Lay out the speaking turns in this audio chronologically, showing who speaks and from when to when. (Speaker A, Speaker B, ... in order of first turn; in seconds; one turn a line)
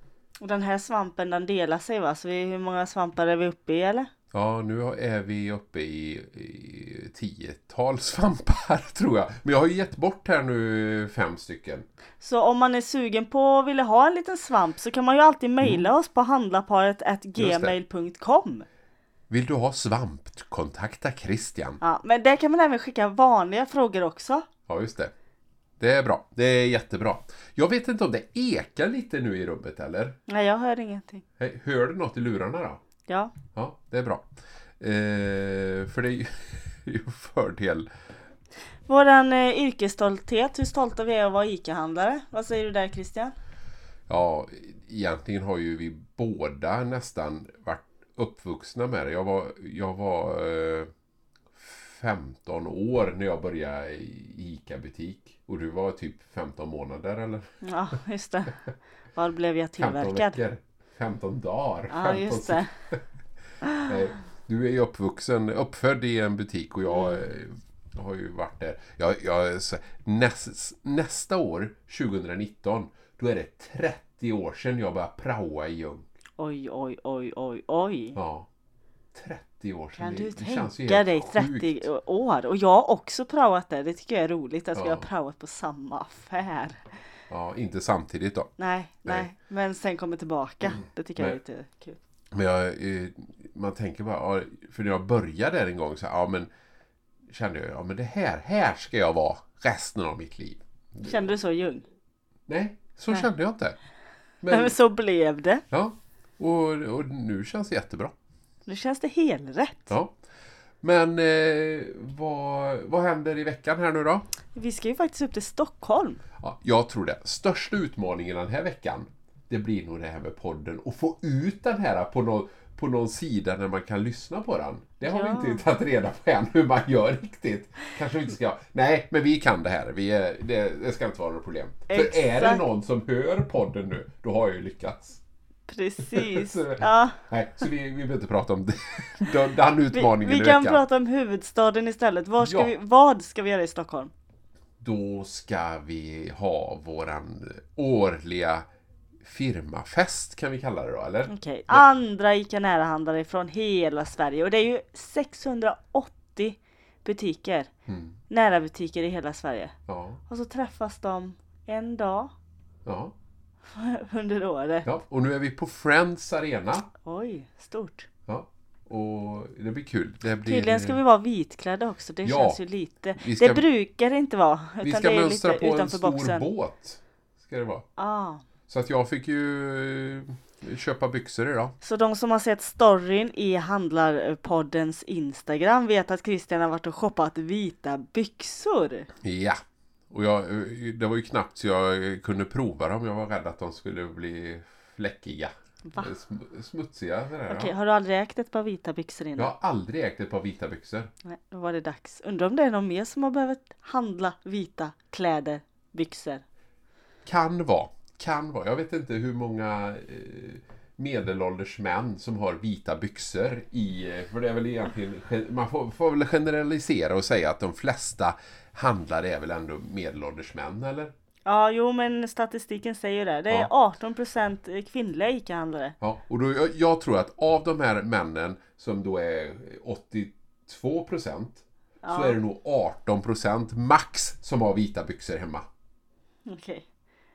Speaker A: 0.4-4.1
Speaker B: 4.3-11.9
Speaker A: 12.2-18.7
Speaker B: 15.6-15.9
Speaker B: 17.4-17.8
Speaker B: 19.3-21.8
Speaker A: 21.8-24.5
Speaker B: 24.7-25.1
Speaker B: 25.8-30.2
Speaker A: 30.3-31.2
Speaker B: 31.4-32.8
Speaker A: 33.1-33.3
Speaker B: 33.5-34.3
Speaker B: 34.8-37.9
Speaker A: 38.9-43.3
Speaker B: 44.1-50.9
Speaker B: 51.5-57.5
Speaker A: 57.6-58.6
Speaker A: 59.1-60.4
Speaker B: 59.8-63.0
Speaker A: 61.9-62.7
Speaker B: 63.8-76.1
Speaker A: 66.9-67.2
Speaker A: 76.4-78.2
Speaker B: 78.2-78.5
Speaker B: 79.1-81.9
Speaker A: 80.0-86.8
Speaker B: 84.8-85.1
Speaker B: 87.3-88.5
Speaker A: 88.6-92.0
Speaker B: 90.6-91.4
Speaker B: 92.3-96.5
Speaker B: 97.3-101.3
Speaker A: 101.0-101.8
Speaker B: 102.5-103.8
Speaker B: 104.4-104.8
Speaker A: 104.5-105.6
Speaker B: 105.7-108.1
Speaker A: 108.7-109.9
Speaker B: 110.8-114.2
Speaker A: 114.5-116.2
Speaker B: 116.4-135.2
Speaker A: 125.0-125.6
Speaker A: 131.9-132.6
Speaker A: 135.7-137.2
Speaker B: 136.0-140.8
Speaker A: 139.9-144.1
Speaker B: 142.4-142.7
Speaker B: 144.8-148.7
Speaker B: 149.2-151.9
Speaker A: 151.3-157.7
Speaker B: 157.9-158.2
Speaker A: 158.3-159.7
Speaker B: 159.9-160.2
Speaker A: 160.3-162.3
Speaker B: 162.8-163.2
Speaker A: 163.7-164.9
Speaker B: 164.8-166.9
Speaker A: 167.0-168.1
Speaker B: 168.3-171.0
Speaker A: 170.4-176.4
Speaker B: 172.2-172.6
Speaker B: 173.2-173.7
Speaker B: 174.8-177.9
Speaker A: 178.0-178.4
Speaker B: 178.7-181.8
Speaker A: 181.8-189.1
Speaker B: 189.2-197.7
Speaker A: 197.5-199.5
Speaker B: 199.4-201.1
Speaker A: 201.2-206.4
Speaker B: 207.3-221.1
Speaker A: 221.5-225.9
Speaker B: 226.0-235.7
Speaker A: 232.0-232.4
Speaker A: 236.5-236.9